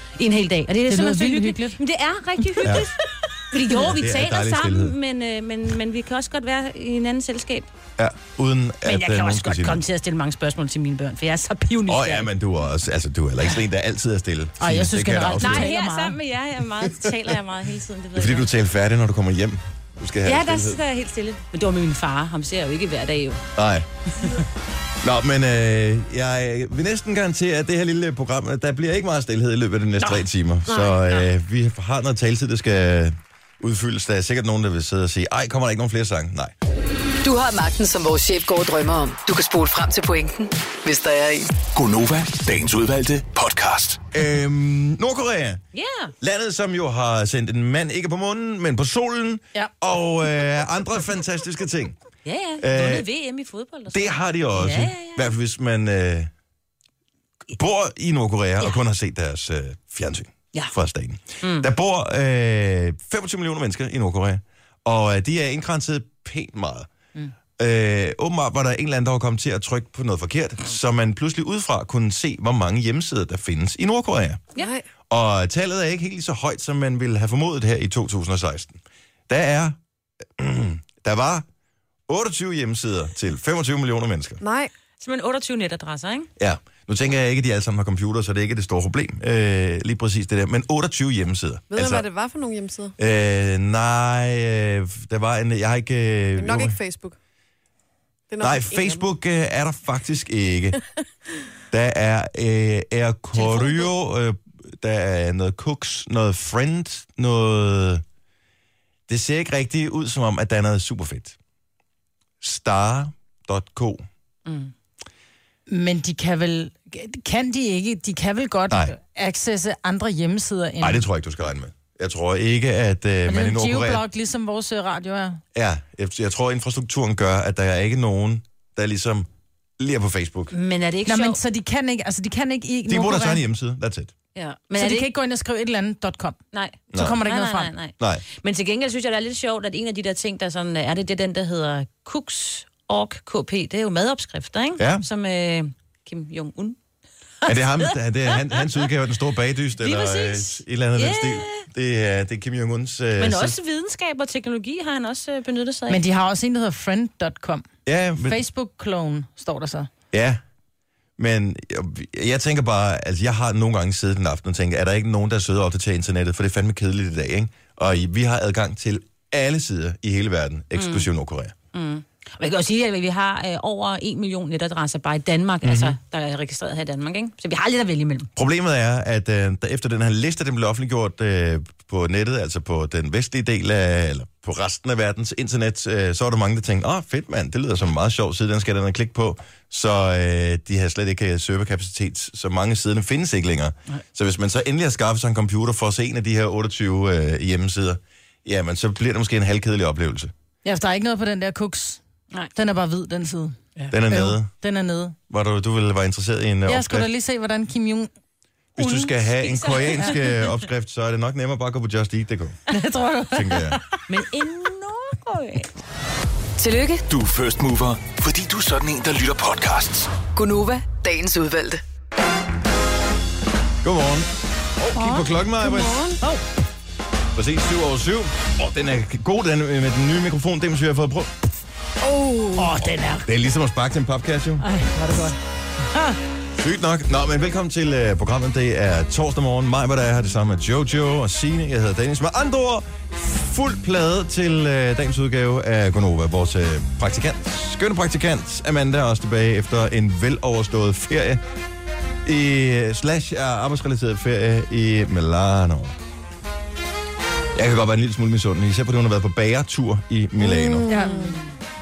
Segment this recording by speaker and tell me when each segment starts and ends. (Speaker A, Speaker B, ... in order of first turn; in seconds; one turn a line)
Speaker A: 0.2-7.7
Speaker B: 0.9-1.8
Speaker C: 2.6-2.9
Speaker C: 3.7-5.0
Speaker C: 8.0-9.8
Speaker A: 8.8-12.3
Speaker C: 11.9-15.7
Speaker B: 14.6-16.2
Speaker A: 15.4-18.5
Speaker C: 16.9-17.2
Speaker C: 18.1-20.8
Speaker A: 20.2-23.4
Speaker C: 23.6-23.9
Speaker C: 25.0-36.5
Speaker A: 30.0-31.3
Speaker D: 37.2-41.5
Speaker E: 41.8-44.1
Speaker C: 44.1-45.6
Speaker A: 45.7-46.1
Speaker C: 46.2-52.0
Speaker A: 52.2-55.3
Speaker C: 52.6-53.1
Speaker C: 53.9-56.3
Speaker C: 57.5-66.9
Speaker A: 61.4-61.7
Speaker C: 67.6-74.4
Speaker F: 74.6-74.8
Speaker C: 75.1-78.8
Speaker C: 79.3-79.8
Speaker C: 80.4-81.5
Speaker C: 82.1-84.4
Speaker F: 84.4-84.7
Speaker A: 85.0-86.3
Speaker C: 86.4-92.1
Speaker F: 91.7-93.0
Speaker C: 93.0-96.8
Speaker F: 96.4-97.2
Speaker F: 98.3-99.0
Speaker C: 98.4-100.8
Speaker C: 101.7-108.0
Speaker A: 103.4-103.8
Speaker C: 109.1-111.4
Speaker C: 112.4-114.1
Speaker A: 114.5-114.7
Speaker B: 115.7-121.0
Speaker C: 118.7-119.0
Speaker C: 120.8-124.0
Speaker B: 123.3-125.4
Speaker C: 125.5-129.3
Speaker C: 129.8-130.6
Speaker A: 130.5-131.4
Speaker B: 131.1-133.4
Speaker C: 132.9-134.1
Speaker A: 134.3-135.1
Speaker B: 134.8-136.4
Speaker A: 136.5-146.8
Speaker C: 136.9-137.2
Speaker B: 136.9-137.7
Speaker C: 144.8-145.0
Speaker A: 147.4-148.6
Speaker C: 147.5-153.6
Speaker A: 149.8-151.7
Speaker A: 153.2-156.0
Speaker B: 155.9-157.7
Speaker C: 157.8-158.4
Speaker B: 158.2-159.9
Speaker C: 160.1-160.4
Speaker C: 161.2-171.6
Speaker A: 170.8-171.1
Speaker A: 171.7-178.3
Speaker C: 175.6-176.0
Speaker C: 178.4-200.3
Speaker B: 200.6-202.0
Speaker B: 202.5-205.2
Speaker C: 203.9-204.5
Speaker C: 205.3-207.1
Speaker B: 206.7-208.1
Speaker C: 208.8-212.6
Speaker A: 208.8-210.6
Speaker B: 212.7-213.8
Speaker C: 213.3-213.8
Speaker A: 214.1-215.7
Speaker D: 216.6-217.1
Speaker E: 217.1-220.2
Speaker D: 220.3-221.8
Speaker C: 223.8-226.1
Speaker F: 225.0-226.2
Speaker C: 227.3-231.5
Speaker F: 232.0-232.8
Speaker B: 232.6-233.3
Speaker C: 233.3-234.7
Speaker B: 234.6-235.4
Speaker B: 235.9-236.2
Speaker C: 236.6-251.4
Speaker C: 252.2-255.9
Speaker C: 257.6-260.9
Speaker F: 260.4-261.4
Speaker B: 260.9-261.3
Speaker A: 261.0-261.4